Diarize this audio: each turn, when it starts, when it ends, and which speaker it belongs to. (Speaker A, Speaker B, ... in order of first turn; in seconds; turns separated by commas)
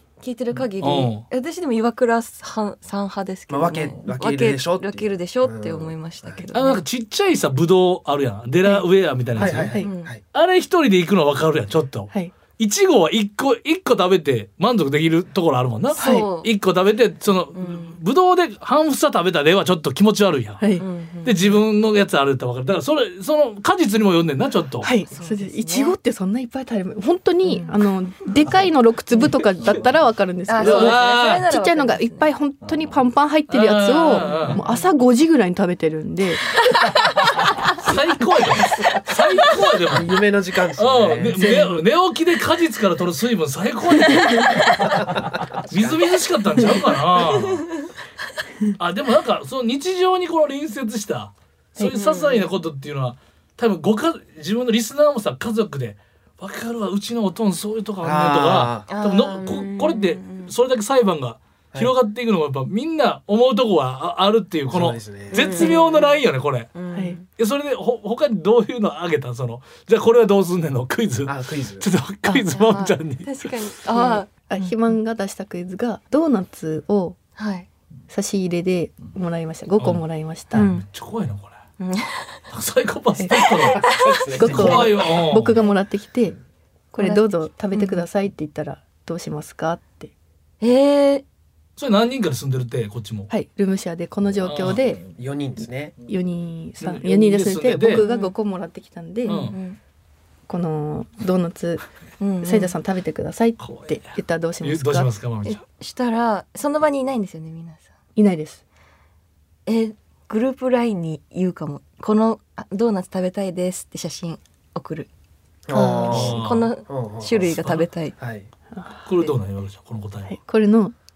Speaker A: 0.2-6.8, Speaker B: 0.8-1.2, Speaker C: 3.5-6.4, Speaker B: 6.5-9.7, Speaker C: 9.4-10.2, Speaker D: 9.4-9.9, Speaker A: 9.8-10.1, Speaker B: 10.3-20.7, Speaker A: 15.9-16.5, Speaker D: 16.0-16.3, Speaker A: 17.5-18.0, Speaker D: 20.6-20.9, Speaker A: 20.8-21.6, Speaker B: 21.2-24.9, Speaker D: 24.8-36.5, Speaker A: 25.1-26.0, Speaker A: 27.4-27.8, Speaker A: 30.5-32.3, Speaker B: 30.6-31.5, Speaker B: 33.5-34.6, Speaker A: 34.4-34.9, Speaker B: 37.8-40.1, Speaker C: 39.9-41.4, Speaker B: 40.8-44.9, Speaker D: 41.4-41.8, Speaker C: 45.6-46.0, Speaker B: 45.7-47.7, Speaker B: 48.8-66.7, Speaker A: 51.9-52.5, Speaker C: 58.0-58.9, Speaker A: 58.9-60.5, Speaker C: 64.7-65.5, Speaker A: 65.3-66.2, Speaker A: 66.7-67.3, Speaker B: 67.4-73.5, Speaker C: 71.3-71.9, Speaker A: 72.5-74.7, Speaker D: 73.9-77.2, Speaker A: 77.4-77.7, Speaker D: 78.1-80.7, Speaker A: 80.5-80.8, Speaker B: 80.5-81.6, Speaker A: 81.8-82.4, Speaker B: 82.5-83.8, Speaker C: 83.7-84.9, Speaker A: 83.8-84.2, Speaker D: 84.3-86.4, Speaker B: 84.4-85.6, Speaker D: 86.9-90.1, Speaker A: 87.0-88.1, Speaker A: 90.6-91.2, Speaker B: 91.8-93.3, Speaker D: 93.3-95.0, Speaker B: 94.4-94.8, Speaker C: 95.2-95.9, Speaker D: 96.1-99.5, Speaker B: 96.8-98.1, Speaker A: 98.0-98.3, Speaker A: 99.2-99.8, Speaker B: 99.3-99.6, Speaker D: 100.5-101.8, Speaker A: 102.2-102.8, Speaker D: 102.4-105.1, Speaker B: 103.6-105.6, Speaker A: 105.5-107.8, Speaker D: 108.2-108.6, Speaker A: 109.7-115.1, Speaker C: 115.7-117.6, Speaker D: 115.7-116.1, Speaker A: 115.7-118.2, Speaker B: 116.1-116.7, Speaker B: 117.5-117.8, Speaker C: 118.2-118.5, Speaker D: 118.7-119.3, Speaker B: 119.0-120.3, Speaker D: 120.3-121.0